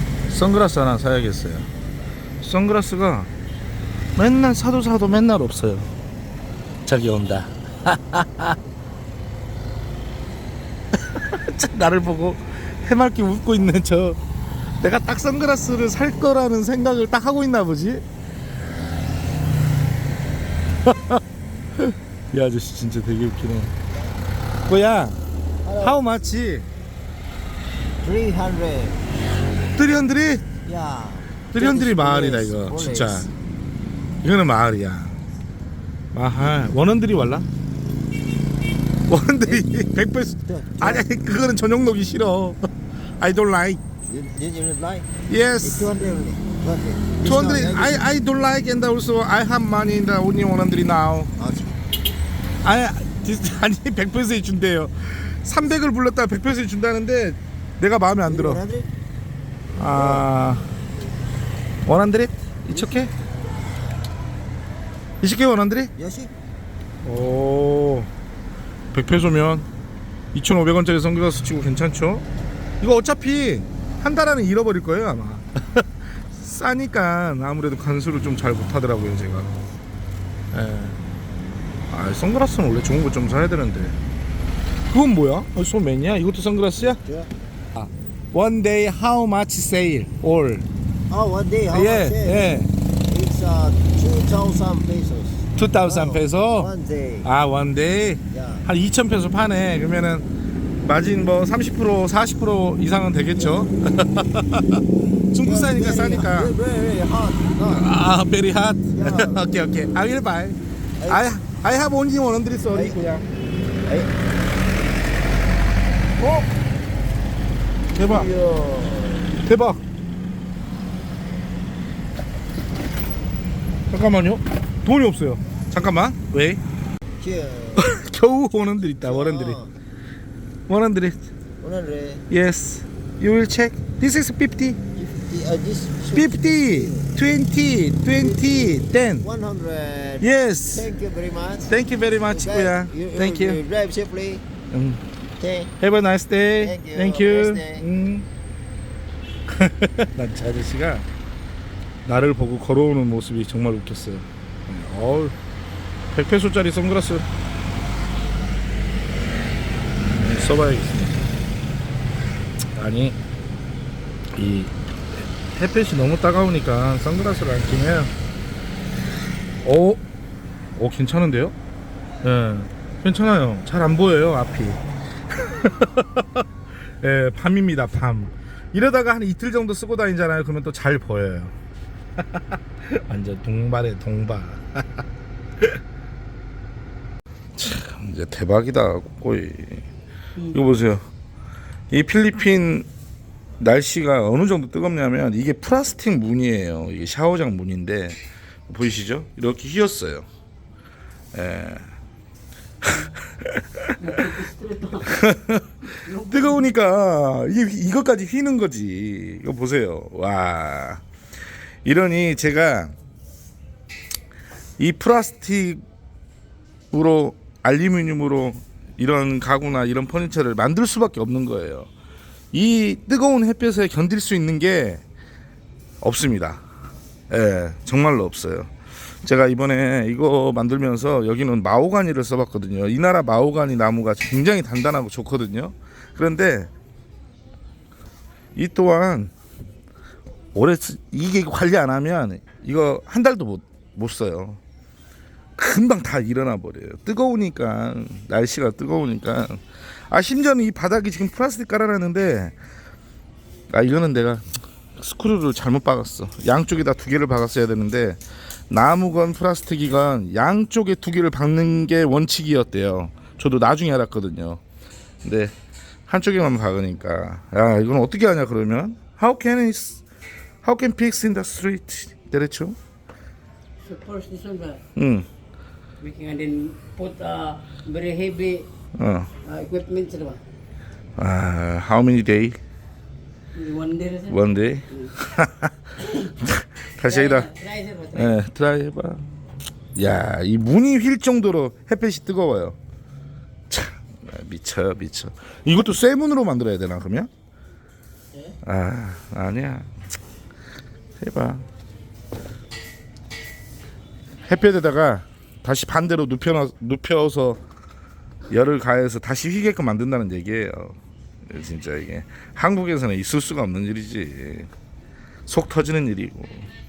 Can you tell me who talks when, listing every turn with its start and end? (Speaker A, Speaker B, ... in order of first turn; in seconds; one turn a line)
Speaker A: 0.3-1.7
Speaker A: 2.4-3.3
Speaker A: 4.1-5.9
Speaker A: 6.8-8.6
Speaker A: 10.9-14.2
Speaker A: 14.8-18.0
Speaker A: 20.8-21.2
Speaker A: 21.8-23.7
Speaker A: 24.7-25.2
Speaker B: 25.6-26.0
Speaker A: 25.8-26.7
Speaker B: 28.0-29.0
Speaker A: 29.8-30.4
Speaker B: 30.6-33.3
Speaker A: 31.5-33.3
Speaker A: 34.2-35.2
Speaker A: 36.1-37.5
Speaker A: 39.1-42.6
Speaker B: 40.5-41.0
Speaker A: 43.2-43.8
Speaker B: 44.1-45.1
Speaker A: 45.3-45.9
Speaker B: 45.6-48.1
Speaker A: 47.2-51.3
Speaker B: 51.4-51.8
Speaker A: 52.6-58.6
Speaker B: 58.3-58.9
Speaker A: 59.8-60.7
Speaker B: 60.0-60.2
Speaker A: 61.8-63.1
Speaker A: 65.2-65.9
Speaker B: 66.0-66.3
Speaker A: 67.0-68.1
Speaker A: 68.9-69.7
Speaker A: 70.3-72.2
Speaker A: 72.8-79.6
Speaker A: 80.5-81.0
Speaker A: 81.9-84.0
Speaker A: 84.9-87.0
Speaker B: 86.8-87.3
Speaker A: 87.8-90.7
Speaker B: 91.1-92.5
Speaker A: 91.7-92.7
Speaker B: 93.1-97.3
Speaker A: 95.5-96.7
Speaker A: 97.2-100.2
Speaker B: 98.3-98.6
Speaker A: 100.8-106.5
Speaker B: 105.4-107.8
Speaker A: 107.7-113.2
Speaker B: 109.0-109.4
Speaker B: 112.7-113.0
Speaker B: 113.8-114.1
Speaker A: 116.2-116.5
Speaker A: 117.9-118.3
Speaker B: 118.0-119.3
Speaker A: 119.4-119.8
Speaker A: 123.9-126.6
Speaker B: 127.2-127.8
Speaker A: 127.8-129.6
Speaker B: 129.0-129.7
Speaker A: 130.7-131.2
Speaker B: 131.6-132.2
Speaker A: 132.3-134.8
Speaker B: 134.9-137.1
Speaker A: 136.1-139.3
Speaker B: 138.2-141.7
Speaker A: 140.2-140.9
Speaker A: 141.7-143.6
Speaker B: 142.3-144.4
Speaker A: 144.7-145.0
Speaker B: 145.4-145.7
Speaker A: 145.8-148.2
Speaker B: 146.6-147.8
Speaker A: 149.5-151.1
Speaker A: 152.0-155.3
Speaker A: 156.1-157.2
Speaker A: 160.0-161.2
Speaker A: 162.8-163.2
Speaker A: 164.3-168.1
Speaker A: 169.6-170.0
Speaker A: 170.7-171.5
Speaker A: 172.2-176.4
Speaker A: 177.0-181.6
Speaker A: 182.2-185.0
Speaker A: 187.5-189.8
Speaker A: 190.5-191.1
Speaker A: 191.9-192.9
Speaker A: 193.6-200.3
Speaker A: 201.3-201.8
Speaker A: 202.8-204.2
Speaker C: 204.0-205.1
Speaker A: 205.0-211.0
Speaker C: 206.0-206.7
Speaker A: 211.8-212.9
Speaker A: 214.8-215.8
Speaker A: 216.9-221.9
Speaker A: 222.5-225.0
Speaker A: 226.0-226.6
Speaker A: 227.3-228.7
Speaker A: 229.2-236.7
Speaker A: 238.5-239.3
Speaker A: 240.5-244.6
Speaker A: 245.6-252.6
Speaker A: 253.7-254.4
Speaker A: 254.9-264.6
Speaker A: 265.2-265.5
Speaker A: 266.1-270.0
Speaker A: 270.6-272.8
Speaker C: 273.8-274.8
Speaker A: 274.9-275.3
Speaker C: 276.0-278.7
Speaker A: 278.9-279.3
Speaker C: 279.4-280.4
Speaker A: 281.2-282.6
Speaker C: 283.6-285.1
Speaker A: 284.3-287.5
Speaker C: 287.0-288.4
Speaker A: 288.1-289.3
Speaker A: 289.9-292.8
Speaker A: 293.7-297.3
Speaker A: 298.6-299.9
Speaker A: 301.2-301.6
Speaker A: 304.4-307.6
Speaker A: 308.5-314.7
Speaker A: 315.5-316.7